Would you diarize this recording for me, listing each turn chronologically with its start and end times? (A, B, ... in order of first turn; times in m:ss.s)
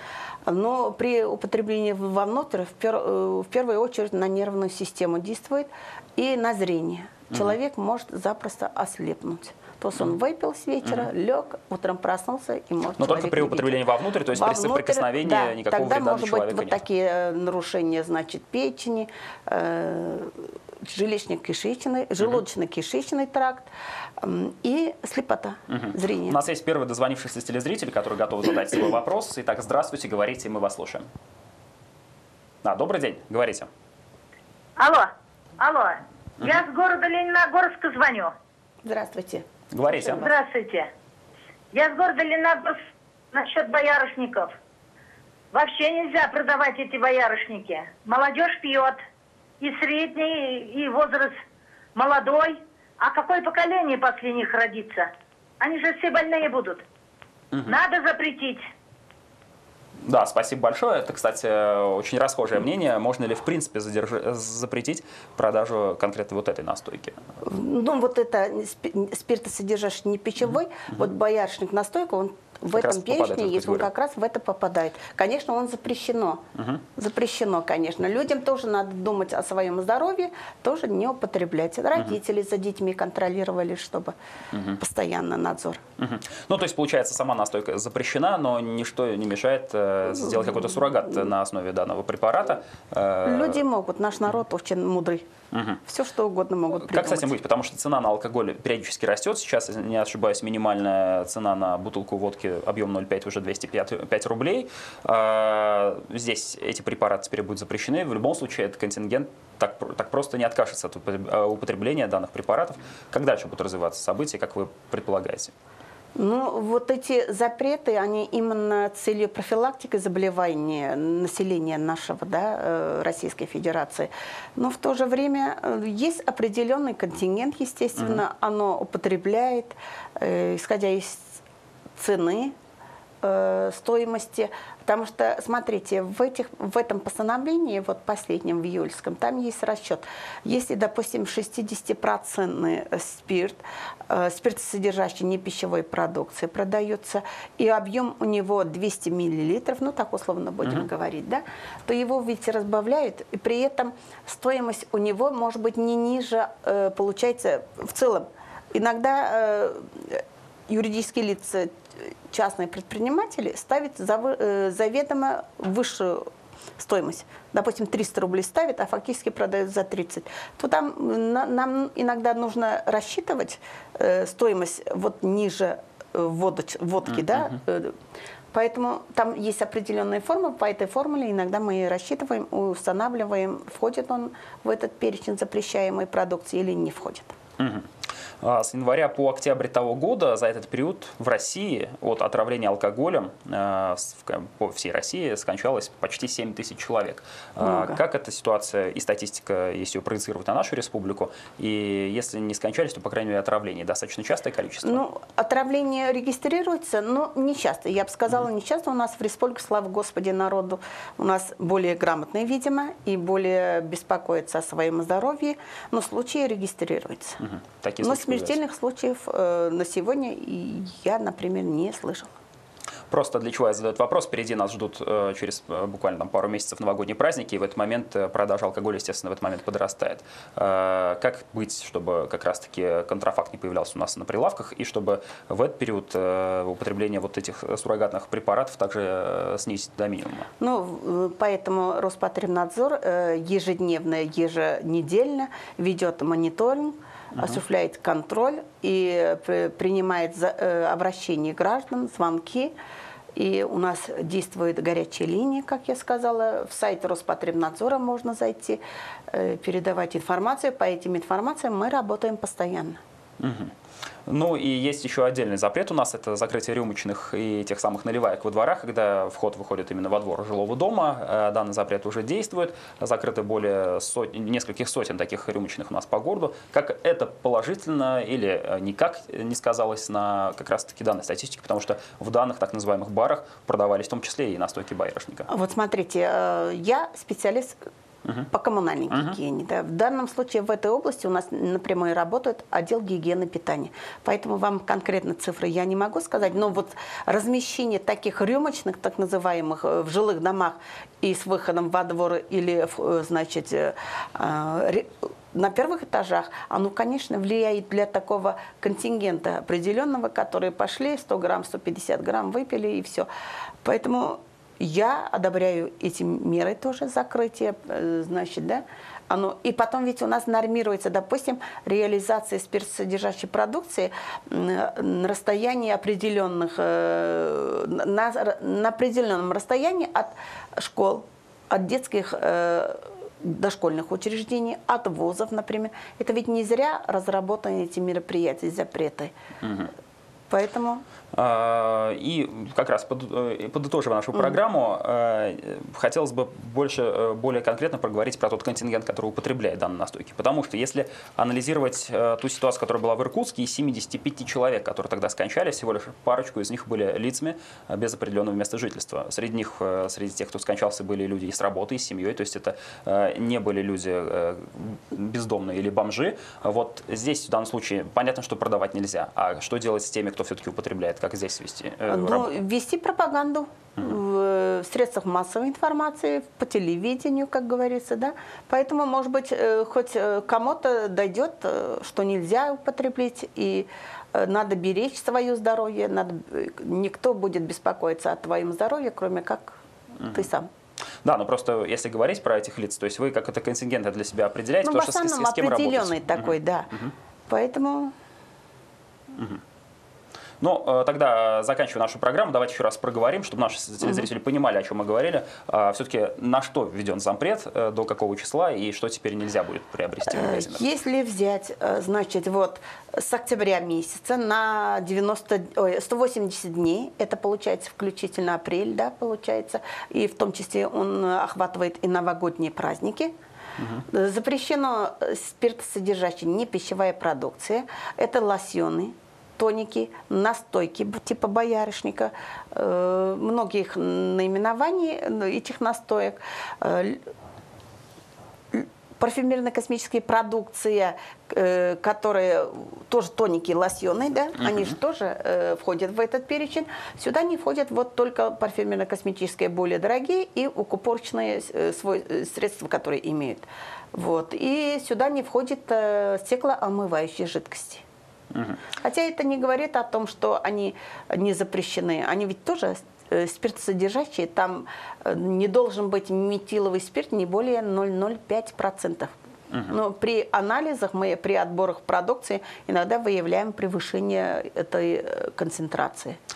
0:00.5-0:23.7 A
0:13.0-0:16.8 B
0:24.2-0:26.4 A
0:25.7-0:31.1 B
0:32.6-0:33.7 B
0:34.8-0:38.3 C
0:38.8-0:40.3 A
0:39.7-0:40.3 B
0:40.1-0:40.9 C
0:41.7-0:42.8 C
0:43.3-0:44.5 C
0:45.5-0:49.0 C
0:49.6-0:51.4 C
0:52.0-0:55.1 C
0:55.6-0:56.8 C
0:57.5-0:57.8 B
0:57.7-0:58.6 C
1:00.0-1:07.2 B
1:07.4-1:16.4 A
1:12.7-1:13.9 B
1:16.6-1:16.8 B
1:17.0-1:24.1 A
1:24.8-1:25.8 A
1:26.0-1:33.6 B
1:33.2-1:35.3 A
1:35.5-1:35.8 B
1:35.8-1:37.3 A
1:36.8-1:55.5 B
1:56.2-2:11.4 A
2:08.0-2:08.2 B
2:12.0-2:12.5 A
2:13.2-2:41.7 A
2:42.3-2:57.9 A
2:57.2-2:57.5 B
2:58.5-3:07.3 A
3:07.6-3:07.9 B
3:08.4-3:25.0 B
3:17.6-3:18.0 A
3:24.8-3:37.4 A
3:37.4-3:38.6 B
3:38.0-3:42.3 A
3:43.1-4:00.5 B
4:00.6-4:12.7 A
4:07.3-4:07.6 B
4:13.4-4:23.0 A
4:23.4-4:23.7 B
4:24.3-4:45.5 B
4:45.5-4:47.8 A
4:48.5-5:13.3 A
4:49.1-4:49.4 B
5:13.8-5:39.3 A
5:39.6-5:39.9 B
5:40.5-5:41.0 A
5:41.3-6:12.6 B
6:12.1-6:30.7 A
6:30.2-6:30.5 B
6:31.2-6:37.1 B
6:34.8-6:37.0 A
6:37.5-6:38.1 A
6:39.3-6:39.6 B
6:40.6-6:50.8 B
6:50.3-7:03.3 A
7:03.8-7:04.0 B
7:04.1-7:17.2 A
7:18.7-7:38.0 A
7:24.6-7:24.9 B
7:38.5-7:38.8 B
7:39.0-7:49.3 A
7:49.9-7:56.4 A